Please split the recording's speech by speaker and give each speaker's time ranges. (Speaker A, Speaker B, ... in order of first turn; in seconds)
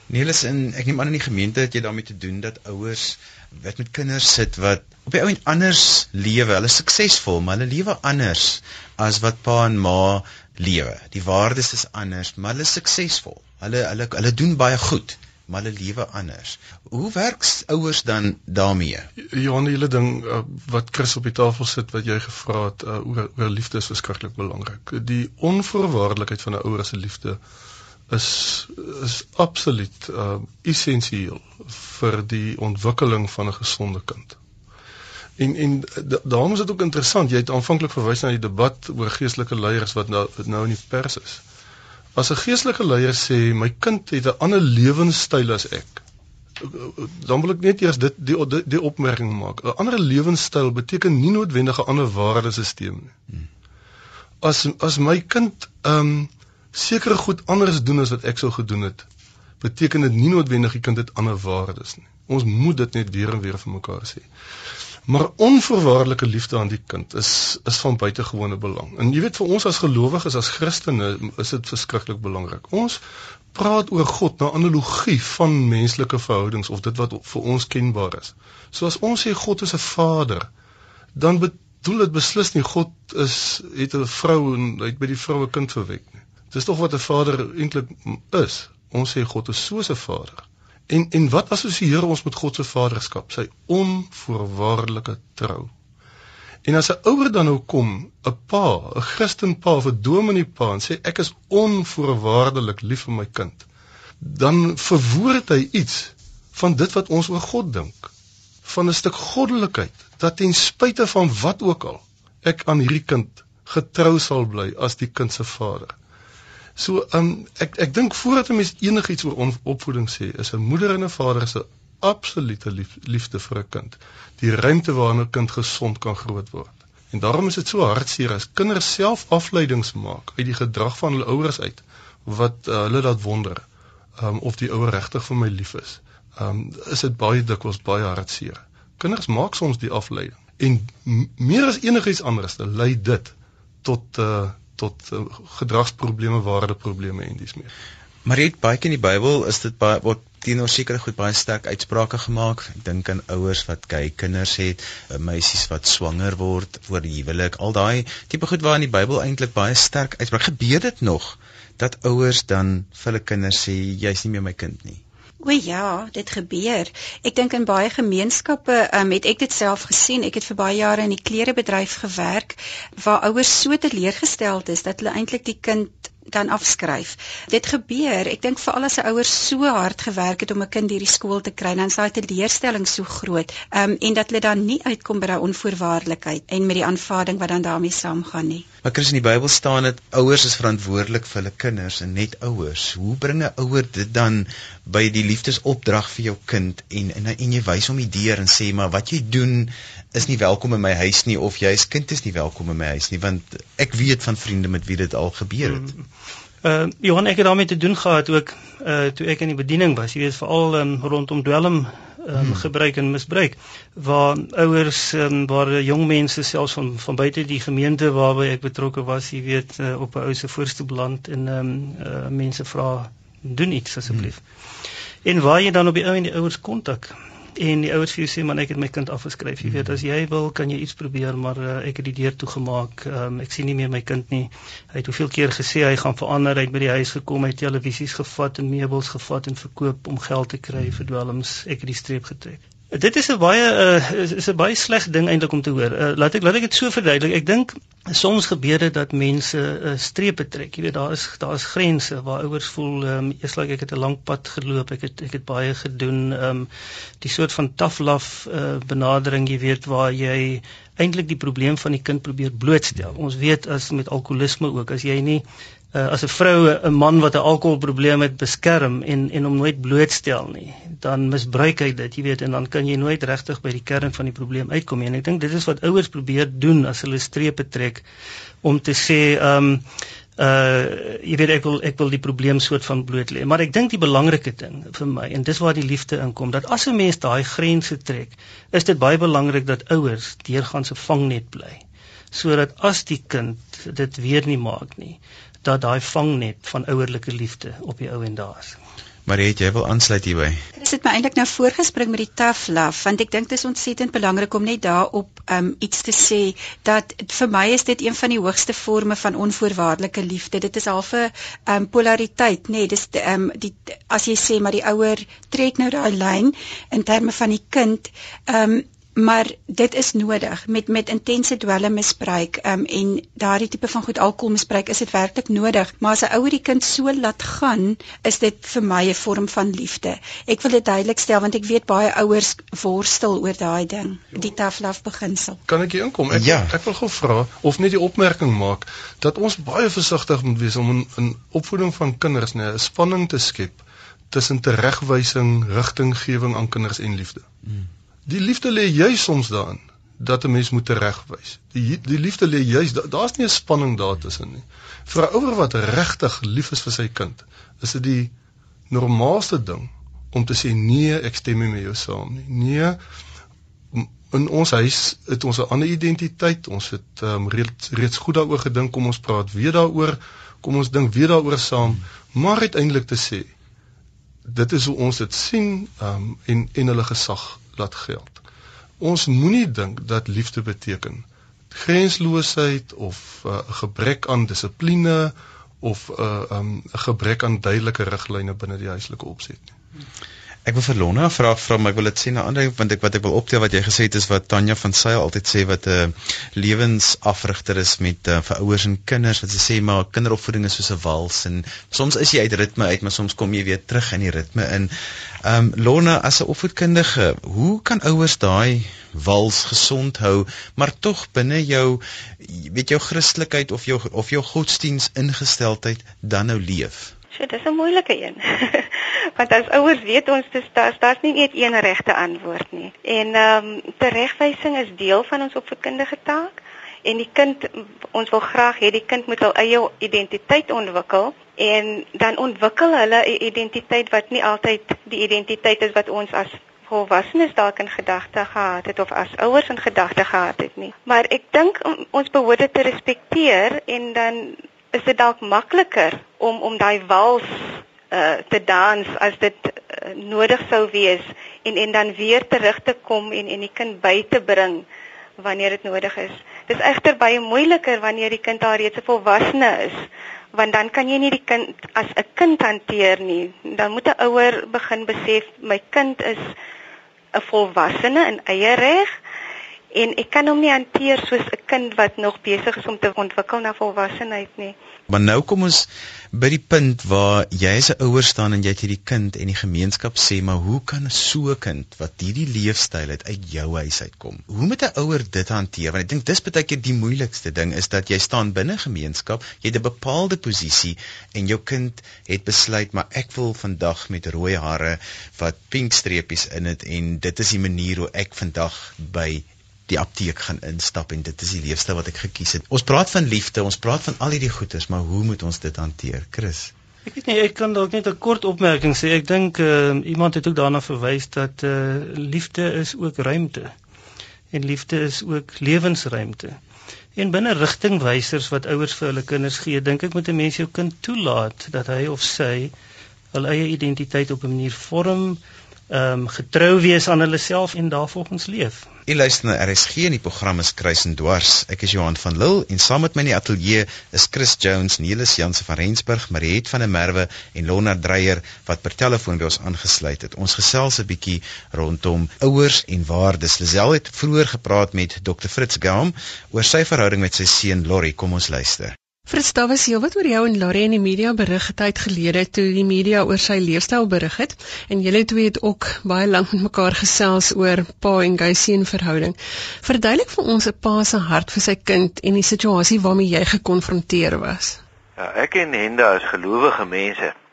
Speaker A: 0.1-19.1, 148.2-165.0, 188.8-205.9, 212.4-212.6, 299.3-300.6, 336.3-336.7, 390.6-404.9, 405.4-417.1, 475.1-506.7, 529.1-549.0
Speaker B: 19.3-27.4, 28.1-34.4, 35.4-41.4, 42.1-46.0, 46.6-53.1, 54.4-59.1, 59.6-64.3, 65.1-73.0, 73.5-80.5, 81.2-95.7, 96.6-103.7, 104.2-108.1, 108.6-116.0, 116.8-133.7, 134.2-147.7, 335.7-347.5, 348.3-358.3, 358.9-363.0, 363.9-373.5, 374.5-378.4, 379.0-389.7
Speaker C: 165.4-188.7, 300.8-335.6
Speaker D: 206.6-224.4, 225.2-256.7, 257.2-278.0, 278.6-279.8, 280.4-298.8, 507.1-513.7, 514.5-516.6, 517.2-522.7, 523.3-528.9
Speaker E: 417.3-447.5, 448.1-454.8, 455.4-466.4, 467.4-469.1, 469.9-474.7
Speaker F: 549.3-564.8
Speaker G: 565.2-567.4